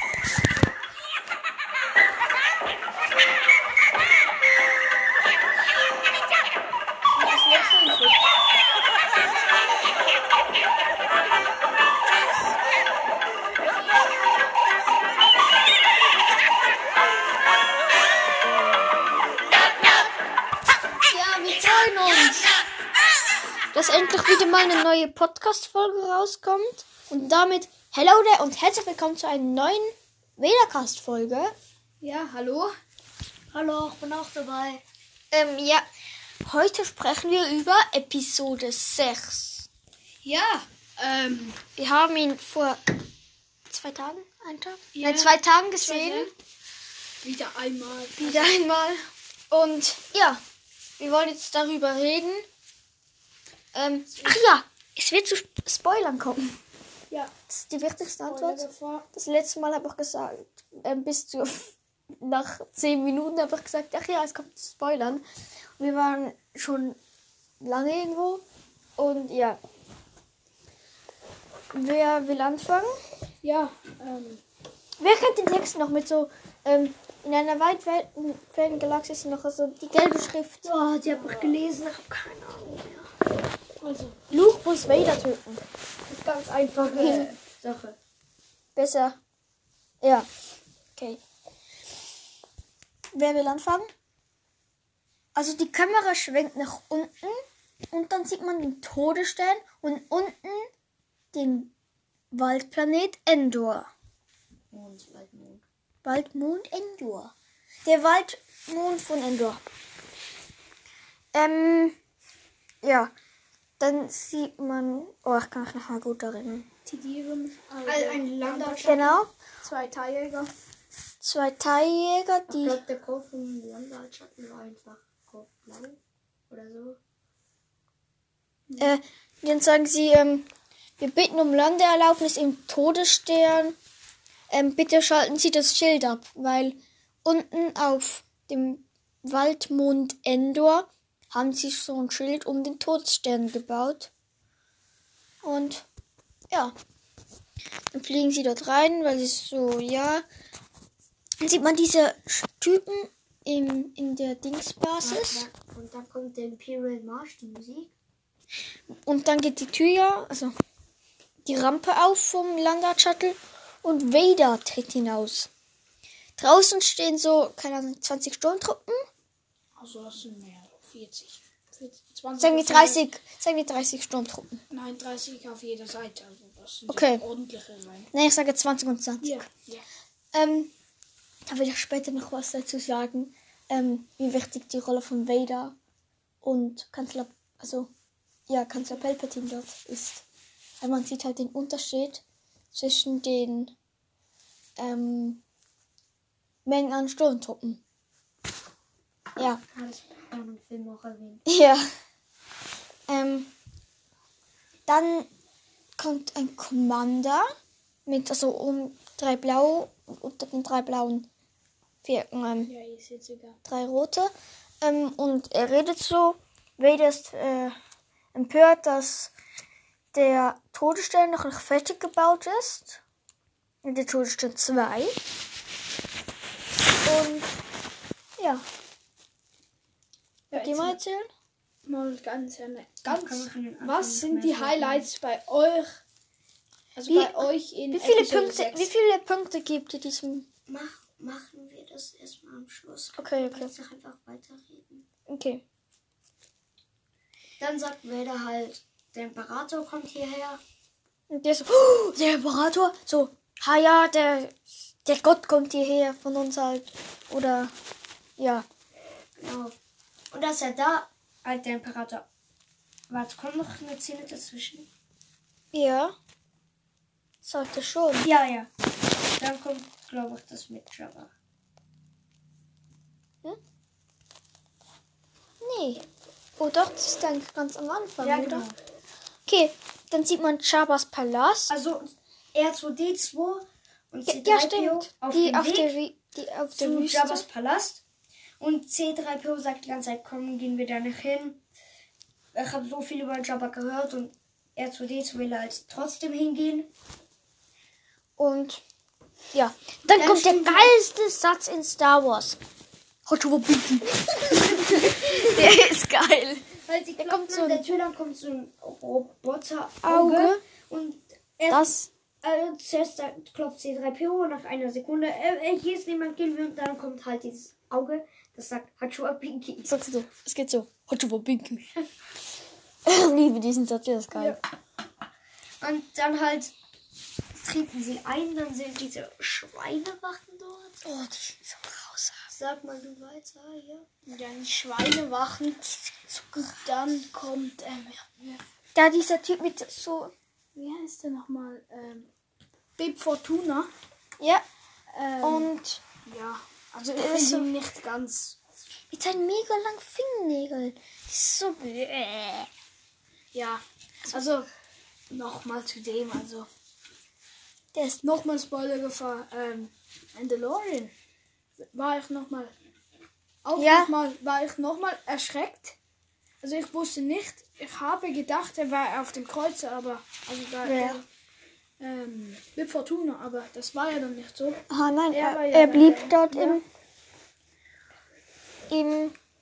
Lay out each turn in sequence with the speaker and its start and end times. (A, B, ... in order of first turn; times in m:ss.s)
0:07.2-0:08.1 A
0:21.1-0:22.6 A
0:23.7-0:31.5 A
0:32.0-0:32.7 B
0:33.5-0:34.8 C
0:35.3-0:35.9 A
0:36.4-0:39.7 A
0:40.2-0:41.6 B
0:41.8-0:42.8 A
0:43.7-0:46.3 A
0:45.0-0:46.3 B
0:47.2-0:48.5 B
0:48.2-0:50.4 A
0:51.0-0:52.5 A
0:53.7-0:56.6 A
0:54.1-0:54.4 B
0:57.5-1:05.2 A
0:58.3-0:59.0 B
1:05.8-1:07.0 A
1:07.6-1:08.4 A
1:09.0-1:09.6 A
1:11.7-1:13.0 A
1:13.4-1:14.4 B
1:15.0-1:20.7 A
1:20.6-1:23.1 C
1:21.1-1:21.6 B
1:23.8-1:24.2 B
1:24.3-1:25.6 A
1:26.1-1:28.0 C
1:27.0-1:27.3 A
1:28.8-1:29.2 A
1:30.0-1:30.3 A
1:33.1-1:33.9 A
1:35.4-1:40.7 A
1:41.3-1:41.7 A
1:42.3-1:43.9 A
1:44.7-1:45.6 C
1:46.0-1:47.3 A
1:47.8-1:49.6 A
1:51.3-1:52.0 A
1:52.8-1:53.1 A
1:53.8-1:56.7 A
1:56.9-1:59.1 B
1:57.8-1:59.2 C
1:58.8-1:59.3 A
1:59.6-2:00.5 B
2:01.2-2:02.8 A
2:02.5-2:07.0 C
2:08.8-2:10.5 A
2:11.0-2:13.8 A
2:14.5-2:24.1 A
2:25.4-2:25.8 A
2:27.9-2:30.2 A
2:31.4-2:35.5 A
2:35.0-2:37.9 C
2:39.0-2:40.5 A
2:41.4-2:45.5 A
2:46.4-2:49.1 A
2:49.8-2:53.0 B
2:52.4-2:54.6 A
2:54.7-2:58.1 B
2:56.9-2:57.2 A
2:58.1-2:59.4 A
2:59.2-2:59.8 B
3:00.3-3:00.7 A
3:01.5-3:05.8 A
3:06.4-3:07.9 A
3:08.5-3:10.2 A
3:10.8-3:13.7 A
3:14.8-3:15.4 A
3:16.6-3:17.8 A
3:19.6-3:21.4 C
3:21.5-3:21.9 A
3:23.1-3:23.5 A
3:24.9-3:25.3 A
3:26.0-3:27.5 A
3:28.1-3:31.3 A
3:32.0-3:32.7 A
3:32.7-3:33.6 B
3:33.7-3:37.8 A
3:38.3-3:39.3 A
3:40.1-3:43.0 A
3:43.8-3:45.2 A
3:47.0-3:47.5 A
3:48.4-3:48.6 A
3:50.5-3:51.0 B
3:50.5-3:51.3 A
3:51.8-3:56.0 B
3:53.1-3:55.1 C
3:57.0-3:58.9 B
3:57.1-4:00.5 A
4:00.7-4:05.1 C
4:03.2-4:03.7 A
4:05.3-4:05.6 A
4:07.6-4:10.6 C
4:11.3-4:17.7 A
4:18.4-4:18.7 A
4:19.4-4:19.8 C
4:20.3-4:22.2 C
4:23.1-4:24.9 C
4:25.7-4:26.2 A
4:27.4-4:28.3 A
4:28.2-4:28.7 C
4:29.4-4:31.3 C
4:35.6-4:36.0 A
4:36.6-4:38.7 A
4:38.2-4:38.8 C
4:39.5-4:41.7 A
4:41.7-4:46.0 C
4:44.3-4:47.4 A
4:46.7-4:48.0 C
4:48.6-4:51.6 C
4:52.5-4:56.9 C
4:58.4-4:58.8 A
4:59.5-5:02.6 A
5:00.1-5:01.0 C
5:03.3-5:07.8 A
5:05.2-5:05.8 C
5:06.8-5:20.0 C
5:10.0-5:10.6 A
5:11.7-5:12.1 A
5:19.9-5:21.9 A
5:23.1-5:24.6 A
5:25.8-5:26.7 C
5:27.6-5:31.0 C
5:31.0-5:32.5 A
5:32.5-5:34.1 C
5:34.3-5:36.0 B
5:36.3-5:36.9 A
5:36.7-5:38.6 B
5:39.0-5:40.3 A
5:40.8-5:42.3 B
5:43.0-5:43.9 B
5:44.4-5:44.6 A
5:45.1-5:45.7 B
5:45.4-5:46.0 A
5:46.2-5:48.6 B
5:47.2-5:47.7 A
5:49.1-5:52.7 A
5:53.5-5:54.7 B
5:55.3-5:56.7 B
5:57.9-5:58.2 A
5:58.2-6:01.1 B
6:01.8-6:02.7 B
6:03.6-6:06.0 B
6:03.8-6:04.2 A
6:06.6-6:11.2 B
6:10.8-6:11.2 A
6:12.0-6:16.8 B
6:14.9-6:16.8 A
6:18.9-6:19.4 A